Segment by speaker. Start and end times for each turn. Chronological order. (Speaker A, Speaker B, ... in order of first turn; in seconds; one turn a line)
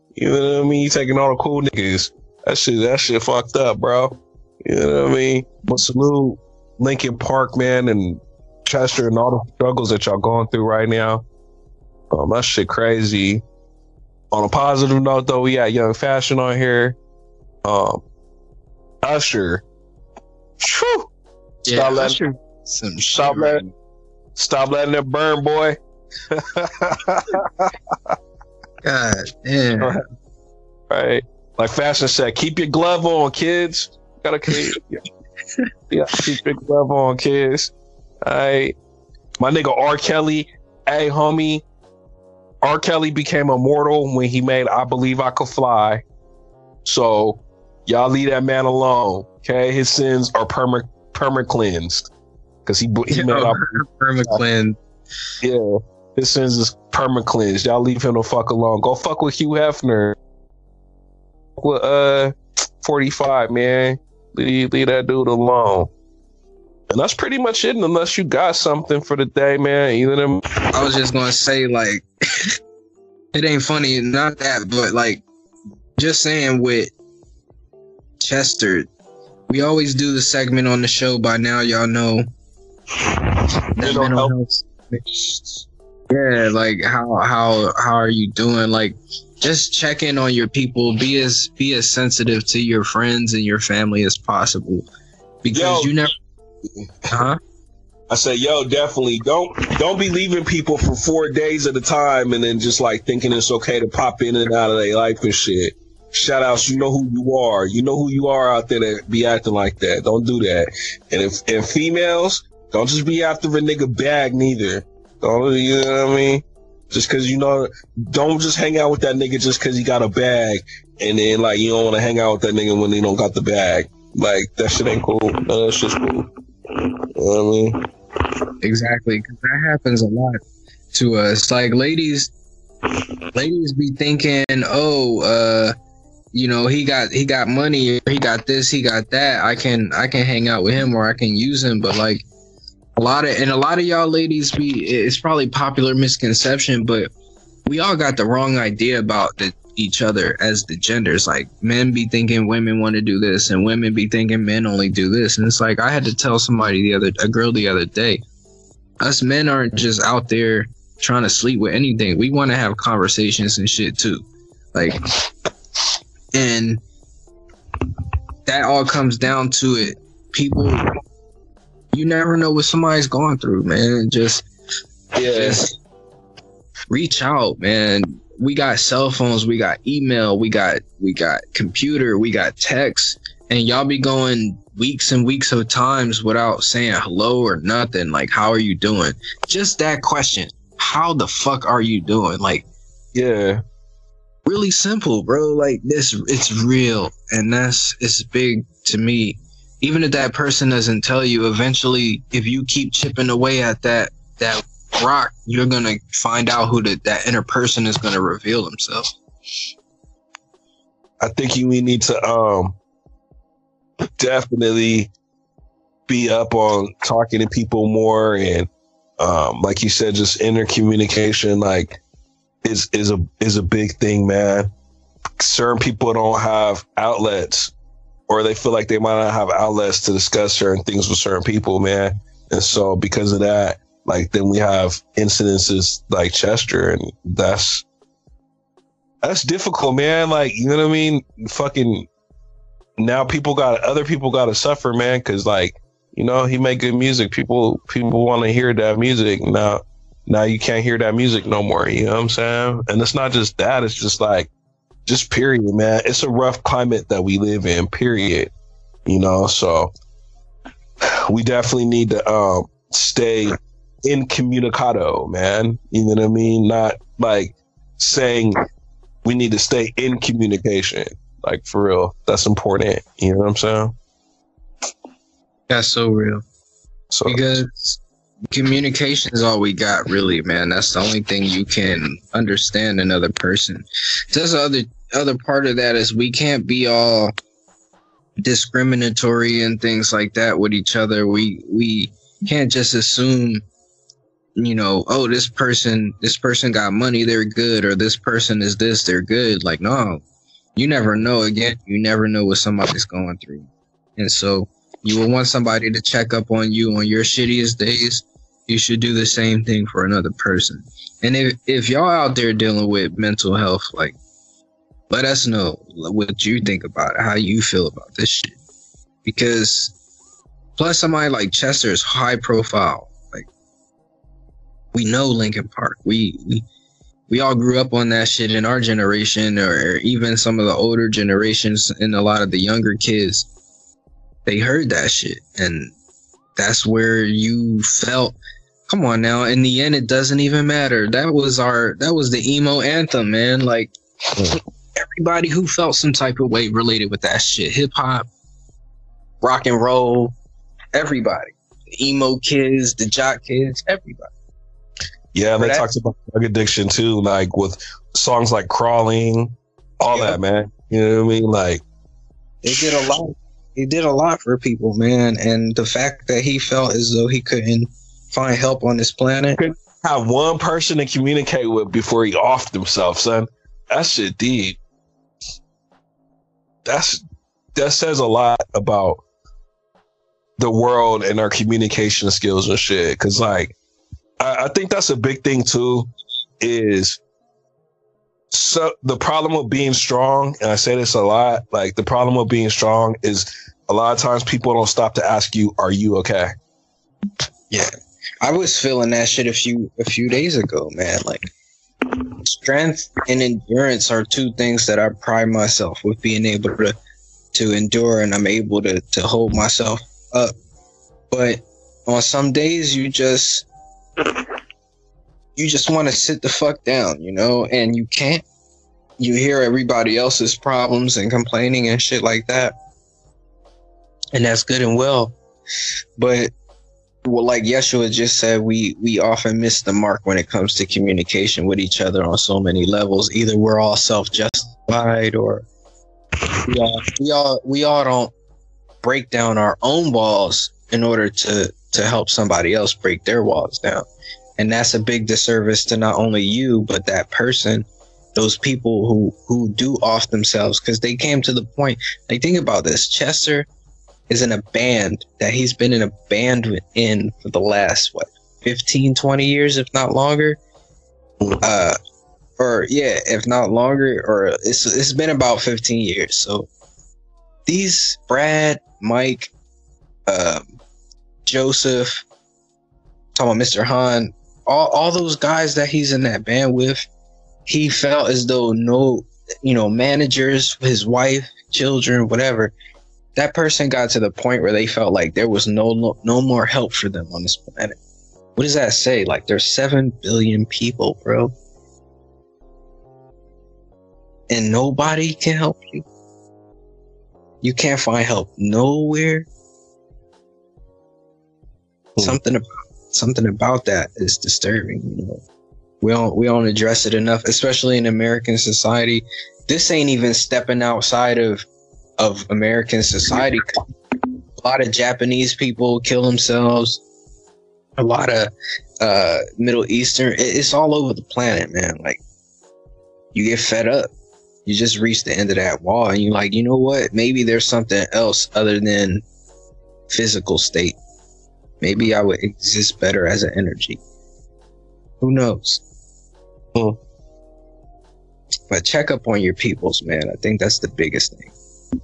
Speaker A: 0.1-11.2
Speaker A: 12.1-13.4
Speaker A: 14.3-17.0
Speaker A: 17.6-18.0
Speaker A: 19.0-19.6
Speaker A: 20.6-21.1
Speaker B: 21.7-23.7
Speaker A: 21.7-22.2
Speaker A: 23.1-23.6
Speaker A: 24.4-25.8
Speaker A: 26.3-28.1
Speaker B: 28.8-30.0
Speaker A: 30.9-35.0
Speaker A: 35.9-37.7
Speaker A: 38.2-38.8
Speaker A: 39.4-41.6
Speaker A: 42.6-46.0
Speaker A: 46.9-52.1
Speaker A: 52.7-54.4
Speaker B: 53.1-54.8
Speaker A: 55.4-60.2
Speaker A: 61.6-65.9
Speaker A: 66.9-70.4
Speaker B: 70.7-72.1
Speaker B: 73.3-75.2
Speaker B: 76.0-76.9
Speaker B: 78.2-78.9
Speaker B: 79.5-82.3
Speaker A: 83.3-84.3
Speaker B: 83.8-85.5
Speaker B: 86.1-94.9
Speaker B: 95.4-96.1
Speaker A: 95.5-96.0
Speaker A: 96.8-97.2
Speaker B: 97.1-97.4
Speaker A: 98.1-127.8
Speaker B: 128.6-130.4
Speaker B: 130.9-132.3
Speaker B: 133.3-135.8
Speaker B: 136.3-142.3
Speaker B: 143.0-147.1
Speaker B: 147.7-158.2
Speaker B: 159.0-165.0
Speaker B: 166.3-166.8
Speaker B: 168.5-170.9
Speaker B: 171.9-174.5
Speaker A: 175.2-175.7
Speaker B: 175.2-175.7
Speaker B: 176.9-192.7
Speaker A: 193.2-193.6
Speaker B: 194.4-209.1
Speaker A: 211.2-212.8
Speaker A: 214.2-215.1
Speaker A: 216.1-218.7
Speaker A: 219.2-222.0
Speaker A: 222.6-224.7
Speaker A: 225.4-227.7
Speaker A: 228.3-237.8
Speaker A: 239.2-242.1
Speaker A: 243.0-254.5
Speaker A: 255.1-258.5
Speaker A: 259.1-259.9
Speaker A: 261.3-263.5
Speaker A: 264.0-268.6
Speaker A: 269.2-273.9
Speaker B: 275.7-276.4
Speaker A: 277.1-277.4
Speaker B: 277.3-278.0
Speaker B: 278.5-287.3
Speaker B: 288.4-293.6
Speaker B: 294.6-300.2
Speaker B: 300.8-314.2
Speaker B: 315.1-318.6
Speaker B: 319.2-319.9
Speaker B: 320.8-323.5
Speaker B: 324.9-326.7
Speaker B: 327.3-333.5
Speaker B: 334.5-335.9
Speaker B: 336.6-338.4
Speaker B: 338.9-343.9
Speaker B: 345.0-348.3
Speaker B: 349.4-350.4
Speaker B: 350.9-354.3
Speaker A: 355.3-361.8
Speaker B: 355.6-355.9
Speaker B: 360.1-360.4
Speaker B: 362.6-369.6
Speaker A: 362.7-363.1
Speaker A: 369.6-374.8
Speaker A: 376.9-377.2
Speaker A: 377.8-379.2
Speaker A: 380.6-383.8
Speaker A: 384.4-387.2
Speaker A: 388.5-396.5
Speaker B: 398.4-401.5
Speaker B: 402.4-406.9
Speaker B: 407.5-410.5
Speaker B: 411.3-413.7
Speaker B: 415.6-418.4
Speaker B: 419.2-422.8
Speaker B: 424.3-425.4
Speaker B: 426.2-426.5
Speaker B: 427.2-435.7
Speaker B: 436.7-438.3
Speaker B: 439.0-444.1
Speaker B: 444.6-453.7
Speaker B: 454.3-460.6
Speaker B: 461.6-462.0
Speaker B: 462.6-466.7
Speaker B: 467.7-469.5
Speaker B: 470.3-470.7
Speaker B: 471.4-472.2
Speaker B: 473.4-477.1
Speaker B: 477.7-482.7
Speaker B: 483.4-488.0
Speaker B: 488.6-491.5
Speaker B: 494.5-496.1
Speaker B: 497.6-499.5
Speaker B: 502.2-505.4
Speaker B: 506.0-511.6
Speaker B: 512.2-513.7
Speaker B: 514.6-517.0
Speaker B: 518.0-522.2
Speaker B: 523.3-524.1
Speaker B: 524.7-529.2
Speaker B: 530.1-531.0
Speaker B: 531.8-534.0
Speaker B: 535.2-535.8
Speaker B: 538.7-541.5